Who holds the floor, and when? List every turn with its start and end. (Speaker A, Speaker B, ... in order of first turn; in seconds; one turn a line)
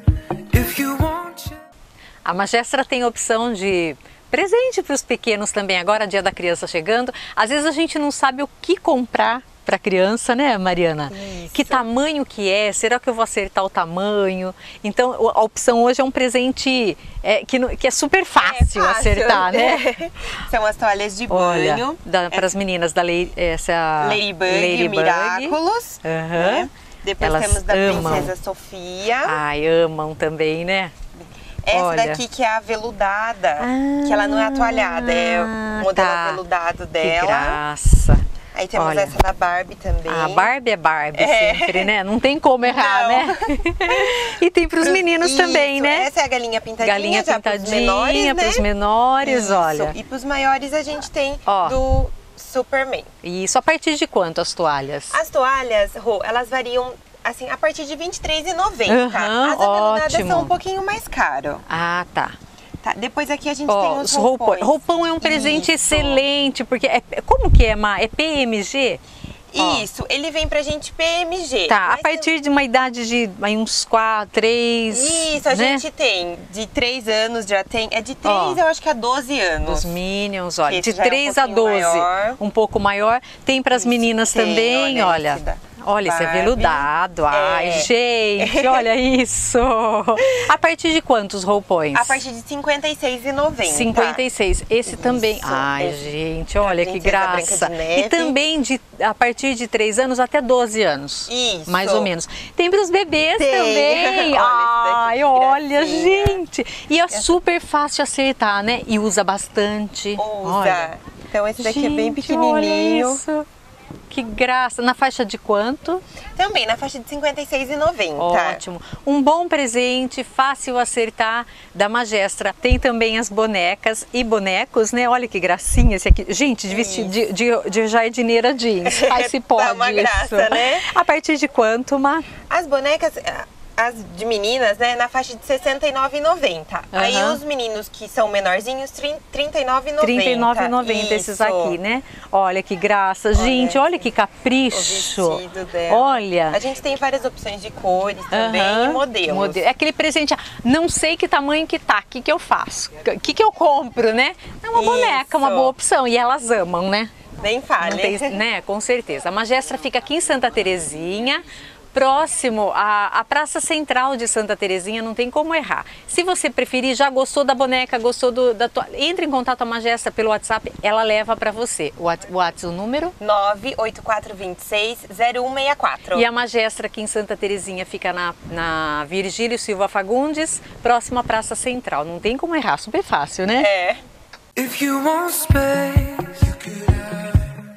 Speaker A: 0.5-1.6
Speaker B: 2.2-19.9
Speaker C: 11.1-11.8
Speaker C: 18.4-22.5
Speaker B: 21.3-26.7
Speaker C: 24.0-29.4
Speaker B: 27.2-28.3
Speaker B: 29.2-30.9
Speaker C: 31.2-37.6
Speaker B: 31.7-32.2
Speaker B: 33.6-36.4
Speaker B: 37.0-38.2
Speaker C: 38.5-40.5
Speaker B: 38.7-39.1
Speaker B: 40.1-46.1
Speaker C: 41.1-41.9
Speaker C: 42.6-48.6
Speaker B: 46.8-50.0
Speaker C: 49.2-53.1
Speaker B: 51.5-51.8
Speaker B: 53.2-55.2
Speaker C: 55.1-61.6
Speaker B: 58.9-60.5
Speaker B: 61.7-62.3
Speaker C: 62.8-66.2
Speaker B: 63.7-69.0
Speaker C: 69.5-72.3
Speaker B: 69.6-69.8
Speaker B: 71.7-75.8
Speaker C: 74.9-80.0
Speaker B: 78.2-78.6
Speaker B: 79.6-92.2
Speaker C: 80.7-82.4
Speaker C: 83.7-88.9
Speaker C: 91.9-94.2
Speaker B: 93.6-110.9
Speaker C: 94.8-98.4
Speaker C: 101.3-102.1
Speaker C: 103.4-106.4
Speaker C: 107.1-107.3
Speaker C: 110.2-113.2
Speaker B: 111.5-113.5
Speaker B: 114.1-116.0
Speaker C: 116.4-118.6
Speaker B: 118.2-132.3
Speaker C: 126.7-127.2
Speaker C: 128.8-130.9
Speaker C: 132.5-141.8
Speaker B: 136.9-137.4
Speaker B: 140.0-146.6
Speaker C: 143.3-143.9
Speaker C: 144.7-149.6
Speaker B: 148.3-157.1
Speaker C: 154.7-155.7
Speaker C: 157.4-158.4
Speaker B: 157.8-173.2
Speaker C: 173.2-176.3
Speaker B: 176.1-183.7
Speaker C: 183.6-184.0
Speaker A: 184.6-187.6